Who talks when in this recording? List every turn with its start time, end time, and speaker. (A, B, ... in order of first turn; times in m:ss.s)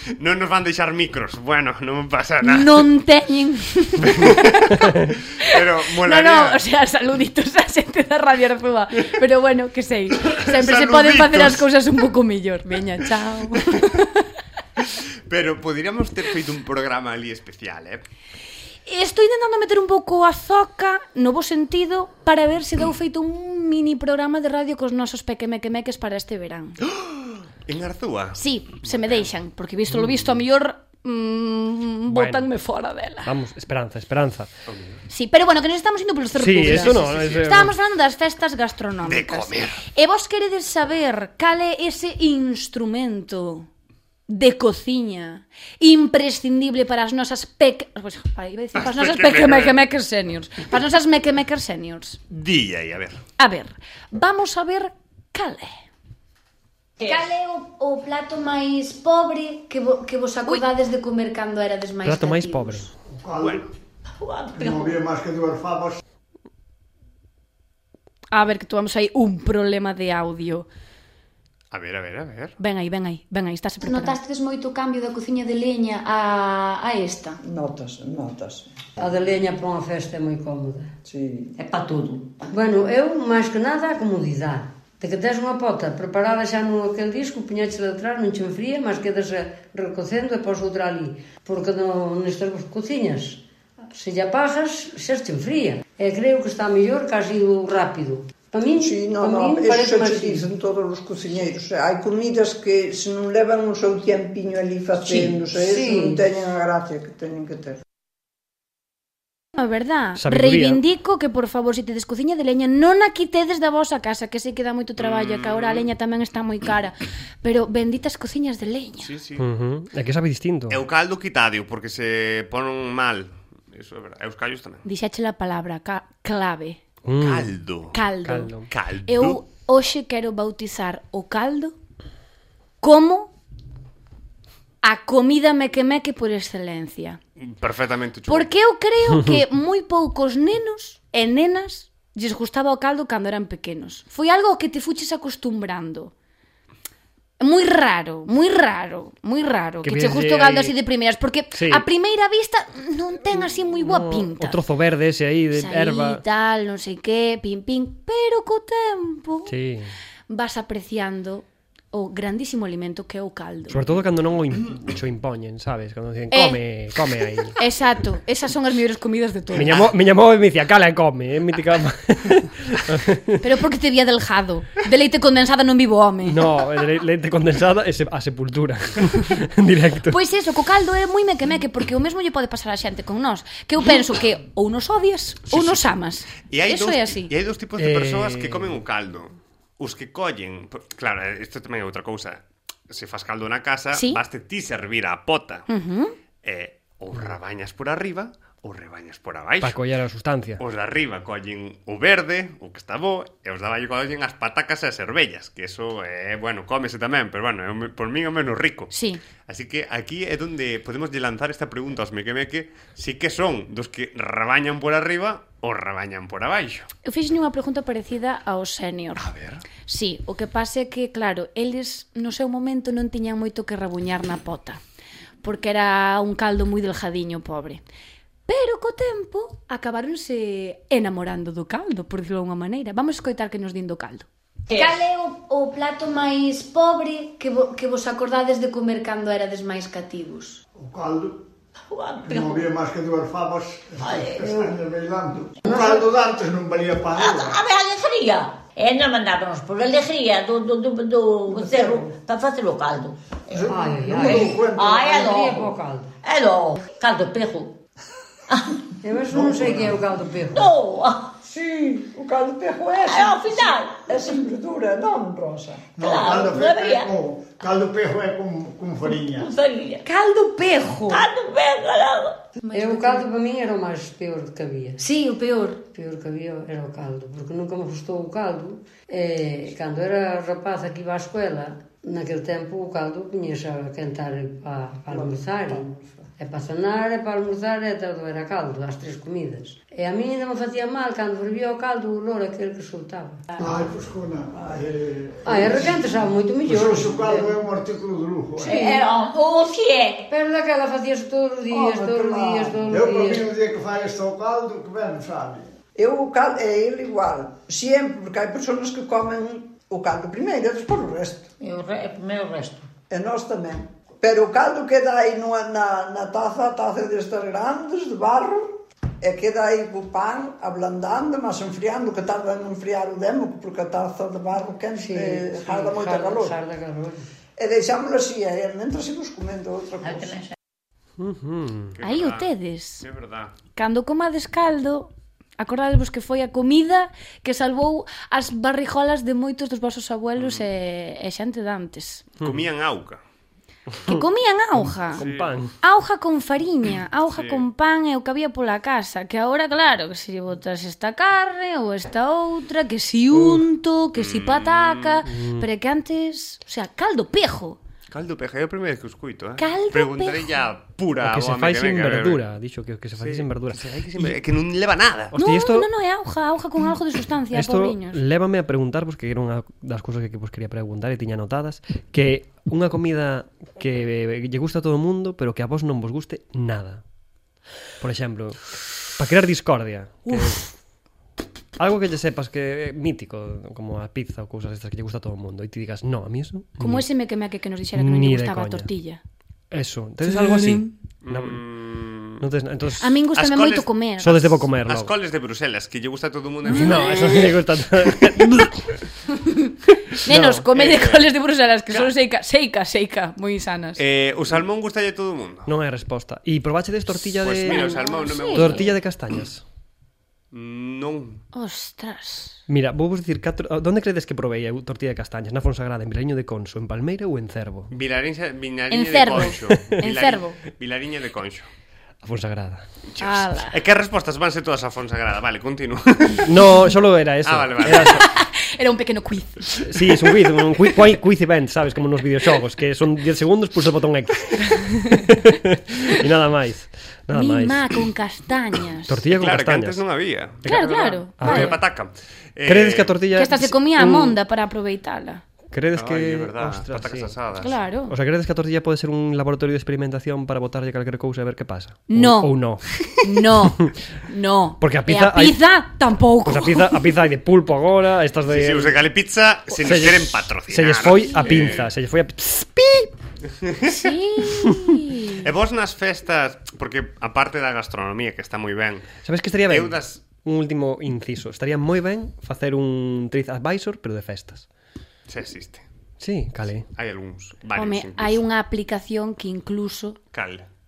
0:00.1-0:02.9 A
0:02.4-0:04.8 B
0:04.0-0:06.6 A
0:05.4-0:14.2 B
0:10.2-0:11.7 A
0:14.8-0:18.0 A
0:18.8-0:26.8 B
0:26.8-0:29.3 A
0:28.4-0:33.3 B
0:29.9-0:30.3 C
0:32.1-0:32.5 C
0:33.2-0:34.5 C
0:34.7-0:35.0 A
0:35.1-0:43.7 B
0:36.4-0:37.7 C
0:36.6-0:37.6 A
0:39.0-0:39.8 A
0:44.3-0:52.2 B
0:48.8-0:49.8 A
0:52.3-0:53.2 A
0:53.4-0:55.7 B
0:57.0-0:57.3 D
0:57.0-1:02.9 E
1:00.4-1:00.7 B
1:02.0-1:02.9 C
1:03.1-1:03.7 F
1:03.4-1:03.6 A
1:04.1-1:05.0 D
1:04.5-1:06.0 F
1:08.3-1:10.6 B
1:11.7-1:12.6 A
1:12.6-1:14.2 B
1:13.8-1:17.4 E
1:17.4-1:18.7 G
1:19.0-1:20.9 H
1:21.0-1:21.5 G
1:21.6-1:22.4 D
1:22.5-1:40.4 H
1:38.7-1:47.8 G
1:45.0-1:46.2 H
1:49.5-1:59.1 B
1:50.2-1:50.8 C
1:55.0-1:55.9 A
1:59.0-1:59.4 A
1:59.4-2:00.8 C
2:00.7-2:04.8 A
2:04.8-2:06.8 B
2:07.0-2:07.5 C
2:07.2-2:08.0 A
2:07.9-2:11.7 B
2:08.2-2:08.7 C
2:08.7-2:09.4 A
2:12.8-2:13.3 B
2:14.8-2:17.2 B
2:17.4-2:18.5 A
2:18.3-2:26.1 B
2:19.1-2:19.4 C
2:27.4-2:34.6 B
2:29.8-2:30.7 C
2:31.5-2:31.8 C
2:33.8-2:36.2 C
2:35.5-2:39.5 B
2:39.5-2:39.9 C
2:40.3-2:43.9 B
2:43.7-2:47.5 C
2:46.3-2:46.6 B
2:47.6-2:49.8 B
2:49.5-2:53.4 C
2:49.6-2:49.9 A
2:53.4-2:56.5 B
2:56.2-3:00.2 C
3:00.1-3:07.3 B
3:05.5-3:15.7 A
3:07.8-3:08.8 C
3:13.9-3:14.2 B
3:15.7-3:16.1 B
3:16.4-3:19.8 A
3:19.6-3:20.6 C
3:20.6-3:36.9 A
3:28.9-3:29.2 B
3:37.0-3:39.3 B
3:39.2-3:39.6 A
3:39.8-3:44.8 B
3:45.4-3:47.8 B
3:48.5-3:54.3 B
3:54.7-3:55.1 D
3:54.8-4:00.6 E
4:00.7-4:01.4 F
4:01.9-4:02.7 D
4:02.2-4:07.6 F
4:04.0-4:04.7 D
4:05.7-4:06.0 D
4:07.2-4:15.7 D
4:11.6-4:12.0 F
4:13.5-4:15.3 F
4:13.7-4:16.1 H
4:16.2-4:17.8 D
4:19.0-4:20.7 H
4:19.3-4:20.0 F
4:20.5-4:21.4 D
4:21.4-4:25.9 G
4:23.0-4:24.1 D
4:26.0-4:29.5 F
4:26.0-4:27.1 D
4:29.2-4:30.0 D
4:30.1-4:31.2 B
4:31.1-4:32.4 D
4:32.7-4:35.0 H
4:35.0-4:35.7 E
4:35.9-4:53.4 H
4:53.6-4:56.1 F
4:55.4-4:57.5 H
4:56.6-4:58.8 F
4:58.6-5:00.3 D
4:58.7-4:59.0 H
5:00.3-5:03.4 H
5:01.7-5:02.9 G
5:02.9-5:05.7 F
5:05.9-5:11.5 G
5:11.6-5:12.9 D
5:13.1-5:26.6 G
5:25.0-5:27.3 H
5:27.6-5:30.4 G
5:30.1-5:30.5 D
5:31.2-5:32.0 C
5:32.0-5:32.5 A
5:32.0-5:33.0 B
5:33.0-5:33.5 A
5:33.8-5:42.2 B
5:40.4-5:40.7 A
5:42.4-5:43.2 A
5:44.0-5:45.2 B
5:44.8-5:45.7 C
5:45.2-5:45.5 A
5:45.8-5:57.8 B
5:47.3-5:47.6 A
5:53.3-5:53.6 C
5:54.2-5:55.2 A
5:55.2-5:55.7 C
5:58.1-6:02.4 A
5:59.6-6:00.6 B
6:01.2-6:04.3 C
6:03.2-6:05.4 A
6:05.3-6:05.9 C
6:05.4-6:08.2 B
6:07.5-6:17.0 C
6:18.0-6:20.6 C
6:20.2-6:20.7 B
6:21.8-6:27.0 C
6:26.8-6:29.2 B
6:28.0-6:28.9 C
6:29.7-6:31.6 C
6:30.2-6:30.9 B
6:31.2-6:32.5 A
6:32.4-6:33.2 C
6:33.0-6:34.6 B
6:33.3-6:33.9 A
6:34.2-6:35.1 C
6:34.7-6:38.3 A
6:36.7-6:38.8 C
6:36.7-6:37.5 B
6:39.4-6:39.7 B
6:40.1-6:40.7 C
6:40.2-6:44.0 B
6:40.7-6:41.3 A
6:44.0-6:45.7 A
6:45.6-6:49.6 C
6:47.1-6:48.9 A
6:47.6-6:48.9 B
6:50.5-6:51.4 A
6:51.5-6:52.6 B
6:52.7-6:57.9 C
6:57.9-7:01.7 A
6:58.9-7:00.6 B
6:59.7-7:00.0 C
7:02.2-7:02.8 C
7:03.1-7:06.8 A
7:03.2-7:03.8 B
7:06.4-7:08.3 C
7:07.4-7:08.3 A
7:08.0-7:09.7 B
7:09.8-7:18.0 C
7:17.3-7:19.2 B
7:19.1-7:20.0 C
7:19.3-7:23.2 A
7:20.6-7:21.8 C
7:20.6-7:21.8 B
7:22.6-7:24.4 C
7:23.3-7:25.4 B
7:25.7-7:27.4 C
7:25.9-7:27.7 A
7:27.6-7:28.2 B
7:28.1-7:32.8 C
7:32.1-7:32.7 B
7:32.9-7:33.2 A
7:33.2-7:37.1 B
7:34.8-7:35.6 C
7:36.4-7:39.0 C
7:38.5-7:41.9 A
7:39.8-7:43.1 C
7:41.3-7:41.8 B
7:43.6-7:44.7 A
7:43.9-7:45.4 B
7:45.3-7:50.2 A
7:49.2-7:54.6 C
7:55.3-7:55.8 A
7:56.2-7:56.9 C
7:56.7-7:58.4 A
7:57.7-8:00.2 B
8:00.3-8:00.7 A